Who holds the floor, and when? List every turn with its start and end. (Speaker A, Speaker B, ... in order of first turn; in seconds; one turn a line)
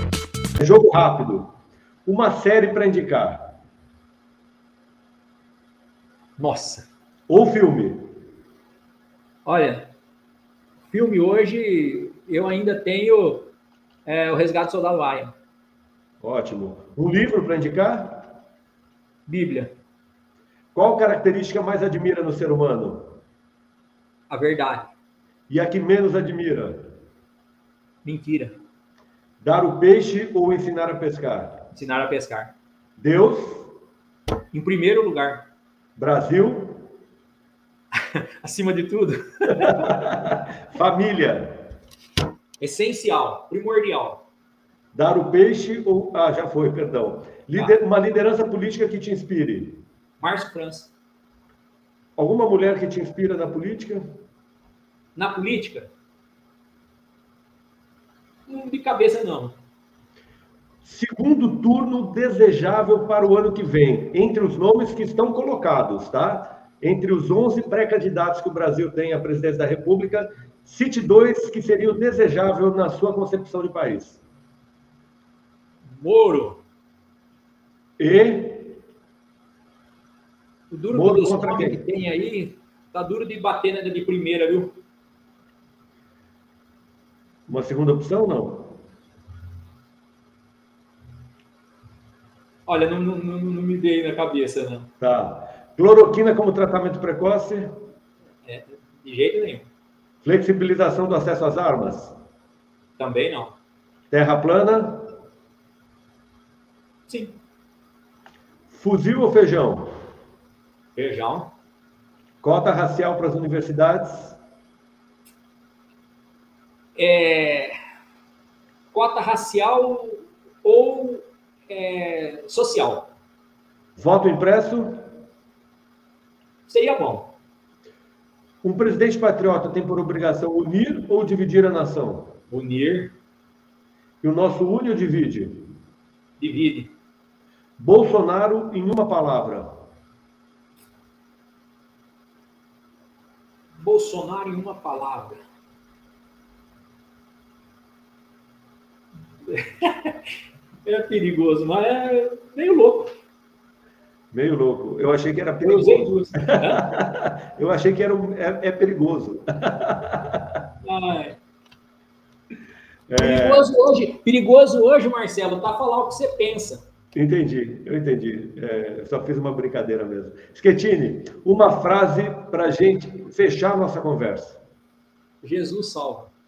Speaker A: 0.6-1.5
Speaker A: 2.0-3.5
Speaker B: 6.4-6.9
Speaker A: 7.3-8.1
Speaker B: 9.4-9.9
Speaker B: 10.9-13.5
Speaker B: 14.0-15.3
Speaker A: 16.2-18.3
Speaker B: 19.3-19.7
Speaker A: 20.7-23.2
Speaker B: 24.3-24.9
Speaker A: 25.5-26.9
Speaker B: 28.0-28.6
Speaker A: 29.4-31.7
Speaker B: 31.7-32.5
Speaker A: 33.0-33.7
Speaker B: 34.5-35.5
Speaker A: 36.0-36.8
Speaker B: 37.9-40.0
Speaker A: 39.8-41.7
Speaker B: 42.6-44.2
Speaker A: 44.9-49.8
Speaker B: 50.2-50.9
Speaker A: 52.2-54.0
Speaker B: 55.1-55.9
Speaker B: 58.5-59.5
Speaker A: 60.8-74.2
Speaker B: 75.9-76.6
Speaker A: 78.0-78.8
Speaker B: 80.7-84.8
Speaker A: 80.9-81.8
Speaker A: 87.5-88.8
Speaker B: 92.7-94.9
Speaker A: 95.0-97.7
Speaker B: 98.4-99.7
Speaker A: 100.2-102.1
Speaker B: 103.0-103.5
Speaker A: 104.1-105.1
Speaker B: 107.1-107.4
Speaker A: 108.7-109.9
Speaker B: 110.9-111.5
Speaker A: 112.4-114.4
Speaker B: 117.0-117.7
Speaker B: 118.9-123.1
Speaker A: 124.0-125.0
Speaker B: 126.7-127.3
Speaker A: 128.6-132.3
Speaker B: 132.5-133.2
Speaker A: 134.2-135.7
Speaker B: 136.4-136.9
Speaker A: 137.8-139.8
Speaker B: 143.8-145.4
Speaker B: 149.5-150.2
Speaker B: 150.8-153.1
Speaker A: 154.3-160.6
Speaker B: 155.6-156.9
Speaker B: 160.8-161.4
Speaker A: 163.1-163.7
Speaker B: 163.2-166.8
Speaker A: 167.1-174.6
Speaker B: 175.4-176.3